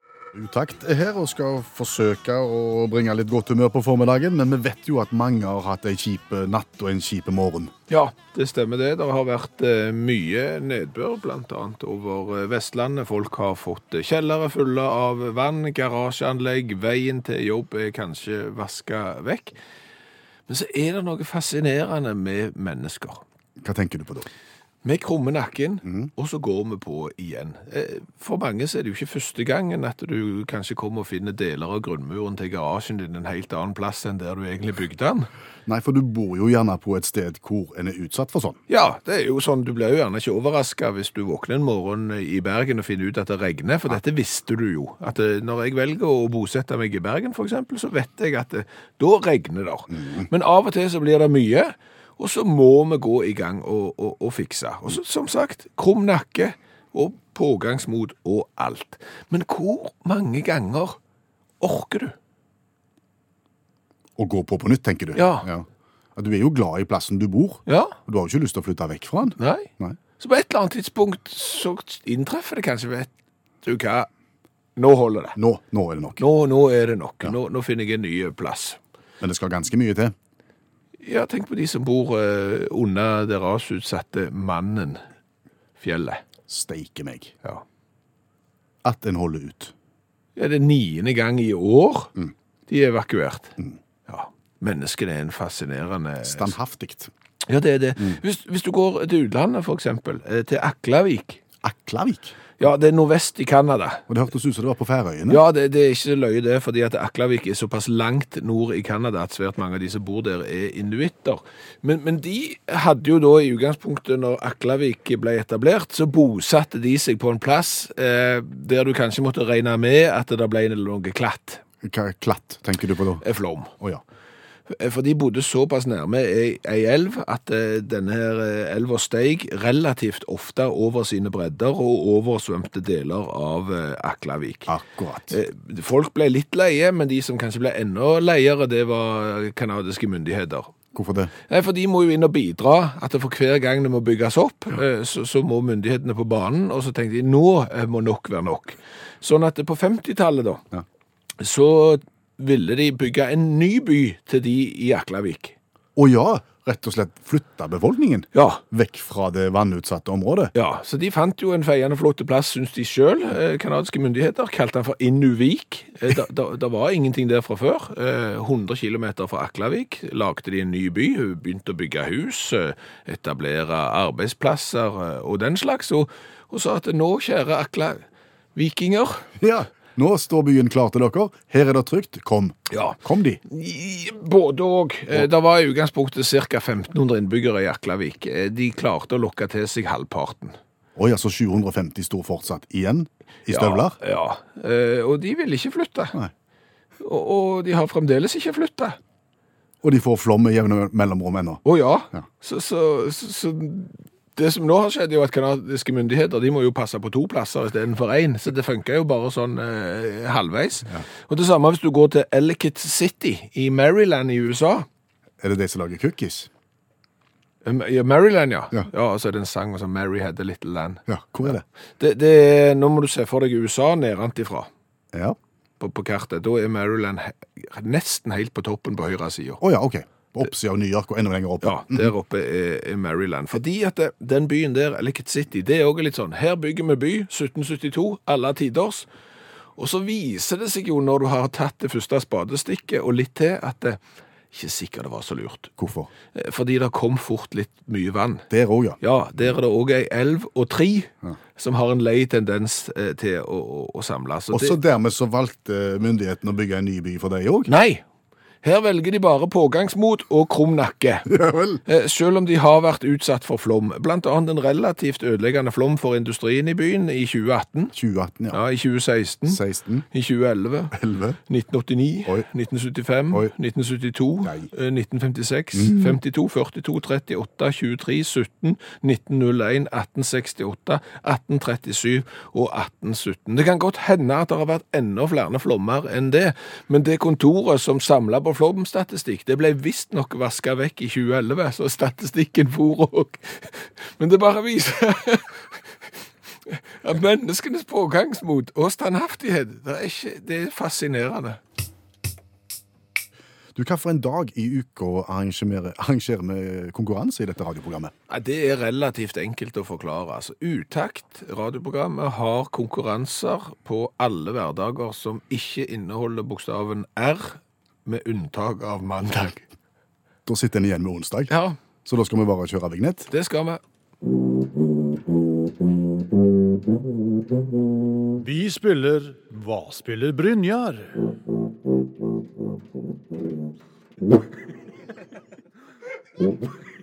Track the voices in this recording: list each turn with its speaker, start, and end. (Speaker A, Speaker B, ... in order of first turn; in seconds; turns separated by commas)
Speaker A: 0.3-7.7, Speaker B: 7.9-19.6, Speaker B: 20.5-23.2, Speaker A: 23.6-24.3, Speaker B: 24.8-35.3, Speaker A: 25.8-26.1, Speaker A: 35.7-38.6, Speaker B: 38.7-61.0, Speaker A: 49.9-50.3, Speaker B: 61.6-62.1, Speaker A: 64.2-70.0, Speaker B: 65.1-65.5, Speaker B: 67.7-68.0, Speaker B: 69.4-73.1, Speaker B: 73.6-74.1, Speaker B: 74.8-75.4, Speaker A: 75.3-76.2, Speaker B: 76.2-78.8, Speaker A: 79.2-80.1, Speaker B: 81.0-85.0, Speaker B: 85.8-86.2, Speaker A: 86.5-87.3, Speaker A: 88.8-89.7, Speaker B: 90.3-92.1, Speaker B: 92.7-96.5, Speaker A: 96.2-97.1, Speaker B: 97.5-101.4, Speaker A: 101.6-102.3, Speaker B: 102.6-104.0, Speaker A: 104.1-105.4, Speaker B: 105.3-121.6, Speaker A: 121.8-123.2, Speaker B: 123.2-123.7, Speaker B: 124.7-134.8, Speaker A: 134.7-135.3, Speaker B: 135.3-140.7, Speaker A: 140.9-141.3, Speaker B: 141.5-150.6, Speaker B: 151.4-155.6, Speaker A: 155.9-160.5, Speaker B: 158.3-158.6, Speaker B: 160.5-179.3, Speaker A: 179.4-183.4, Speaker B: 182.7-190.6, Speaker A: 190.9-194.0, Speaker B: 193.5-196.2, Speaker B: 197.0-199.0, Speaker A: 199.8-201.6, Speaker B: 201.6-214.9, Speaker A: 215.4-216.5, Speaker B: 217.6-224.7, Speaker A: 221.1-221.6, Speaker B: 225.8-229.6, Speaker A: 229.6-232.1, Speaker B: 231.6-239.1, Speaker B: 239.8-244.0, Speaker B: 244.5-245.7, Speaker A: 245.8-246.1, Speaker B: 246.3-248.5, Speaker A: 248.5-249.0, Speaker B: 249.0-254.8, Speaker A: 254.5-257.7, Speaker B: 257.7-258.0, Speaker B: 258.6-261.3, Speaker A: 261.3-261.8, Speaker B: 261.8-267.9, Speaker A: 267.9-268.6, Speaker B: 268.5-270.9, Speaker A: 269.4-270.1, Speaker A: 270.9-271.4, Speaker B: 271.5-295.8, Speaker A: 274.4-274.7, Speaker A: 275.7-276.2, Speaker B: 296.6-301.6, Speaker A: 303.7-308.1, Speaker B: 308.3-319.7, Speaker A: 320.4-321.5, Speaker B: 321.5-321.8, Speaker A: 322.0-323.3, Speaker B: 323.3-323.8, Speaker C: 328.4-331.3